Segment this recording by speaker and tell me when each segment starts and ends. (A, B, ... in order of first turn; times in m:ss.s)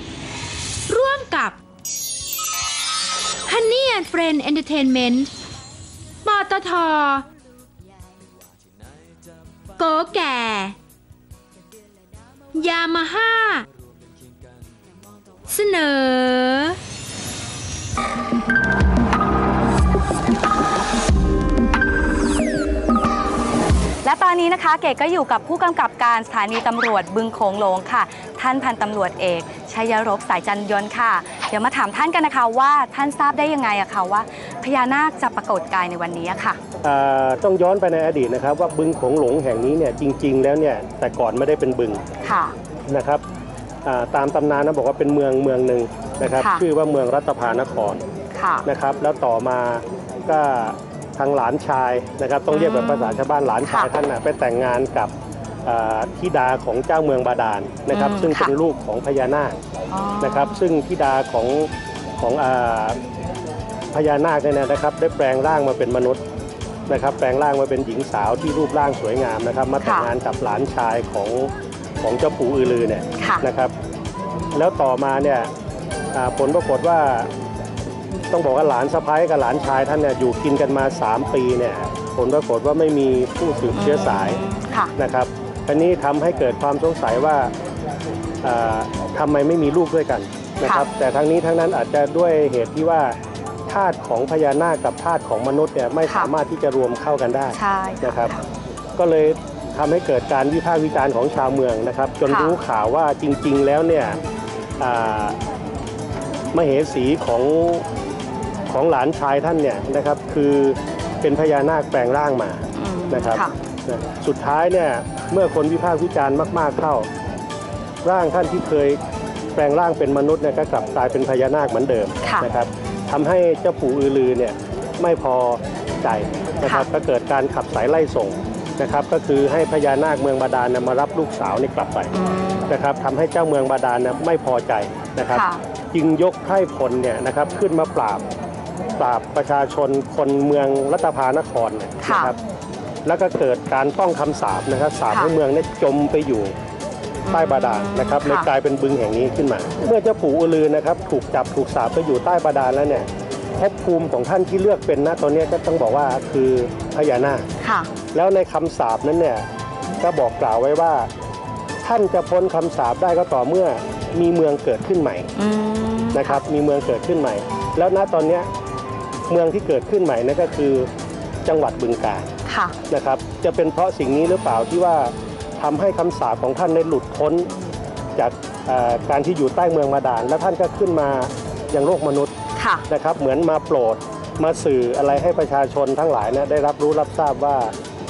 0:00.9-0:01.6 A
0:03.5-0:05.3 A
0:06.2-0:07.3 A
0:09.8-0:10.8 A
0:12.5-0:13.6 A
0:15.5-0:16.8 A
0:24.0-0:36.6 B
0:36.8-0:42.0 C
0:42.2-0:42.5 B
0:42.9-0:43.2 C
0:43.8-0:48.0 C
0:48.3-0:48.7 B
0:48.6-0:55.1 C
0:52.5-0:53.9 B
0:55.6-0:59.6 C
0:57.9-0:58.5 B
0:59.9-1:00.6 B
1:00.2-1:03.0 C
1:03.9-1:06.2 C
1:06.9-1:11.5 C
1:09.8-1:10.1 B
1:12.0-1:13.7 C
1:13.2-1:13.4 B
1:14.5-1:15.5 C
1:16.1-1:17.3 C
1:18.3-1:24.4 C
1:23.7-1:24.9 B
1:25.0-1:27.5 C
1:28.4-1:33.1 C
1:30.6-1:30.9 B
1:33.7-1:38.3 C
1:37.5-1:38.4 B
1:39.0-1:44.2 C
1:42.3-1:42.6 B
1:44.8-1:45.4 C
1:46.5-1:47.8 C
1:48.7-1:57.1 C
1:52.8-1:53.5 B
1:58.0-1:59.0 C
1:59.6-2:12.1 C
2:12.1-2:12.7 B
2:12.7-2:18.2 C
2:15.3-2:15.6 B
2:19.0-2:22.4 C
2:22.0-2:22.3 B
2:23.0-2:26.5 C
2:27.3-2:28.5 B
2:27.3-2:37.4 C
2:37.6-2:37.9 B
2:38.1-2:39.4 C
2:40.0-2:41.1 C
2:41.8-2:45.3 C
2:45.4-2:46.4 B
2:46.1-2:48.5 C
2:49.3-2:50.9 C
2:51.4-2:52.3 C
2:52.4-2:52.7 B
2:52.9-2:57.5 C
2:58.2-3:02.3 C
3:02.6-3:02.8 B
3:02.9-3:07.7 C